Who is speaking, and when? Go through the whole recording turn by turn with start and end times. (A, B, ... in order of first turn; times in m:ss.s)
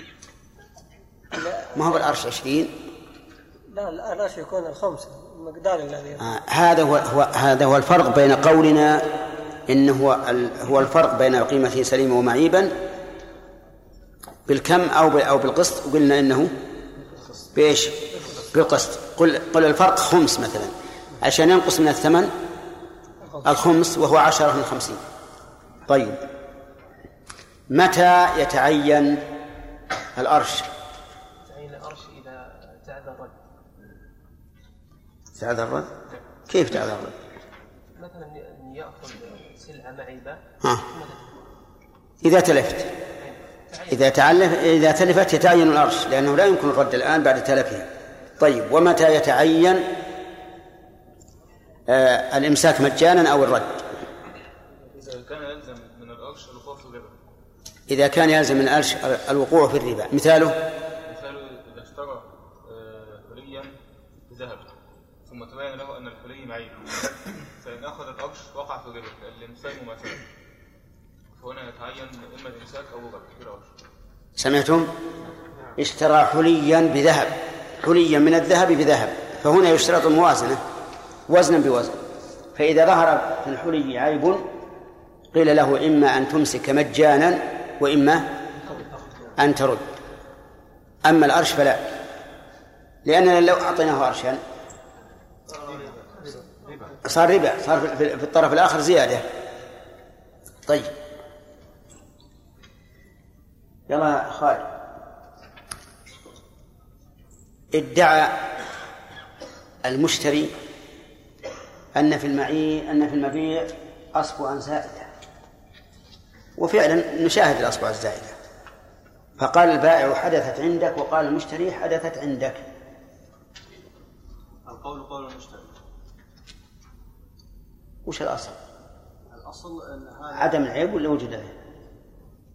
0:01.3-0:01.9 A
0:01.7-0:02.7 B
0:03.7-0:06.3 A
0:06.2-0:09.1 B
0:09.7-0:12.8 B
0:14.5-0:16.5 B
0:17.5-0:22.3 B
0:23.3-0:23.5 A
0:23.4-0:25.0 B
0:25.9-0:26.2 B
0:27.7-0:29.2 B
0:30.2-0:30.7 B
0:31.4-0:33.4 C
0:35.4-0:35.9 B
0:36.5-0:37.2 B
0:38.0-0:41.4 C
0:42.2-0:42.9 B
0:43.2-0:43.9 C
0:43.9-0:47.9 B
0:48.4-0:49.9 B
0:51.9-0:53.9 B
0:54.9-0:57.1 D
0:57.9-1:00.6 B
1:01.0-1:03.7 D
1:04.3-1:04.7 D
1:05.2-1:10.2 D
1:11.4-1:13.7 D
1:14.4-1:14.9 B
1:15.8-1:20.6 B
1:21.3-1:22.0 B
1:22.6-1:24.5 B
1:25.3-1:28.3 B
1:28.6-1:29.3 E
1:29.4-1:29.8 B
1:31.0-1:31.9 B
1:33.0-1:34.4 B
1:35.5-1:37.0 E
1:37.0-1:39.2 B
1:40.6-1:40.9 B
1:43.9-1:44.7 B
1:47.7-1:48.5 B
1:49.8-1:50.5 B
1:51.9-1:55.1 B
1:56.6-1:58.4 B
1:59.4-2:02.6 B
2:04.6-2:05.8 E
2:08.1-2:08.6 B
2:09.3-2:10.6 E
2:10.4-2:11.5 B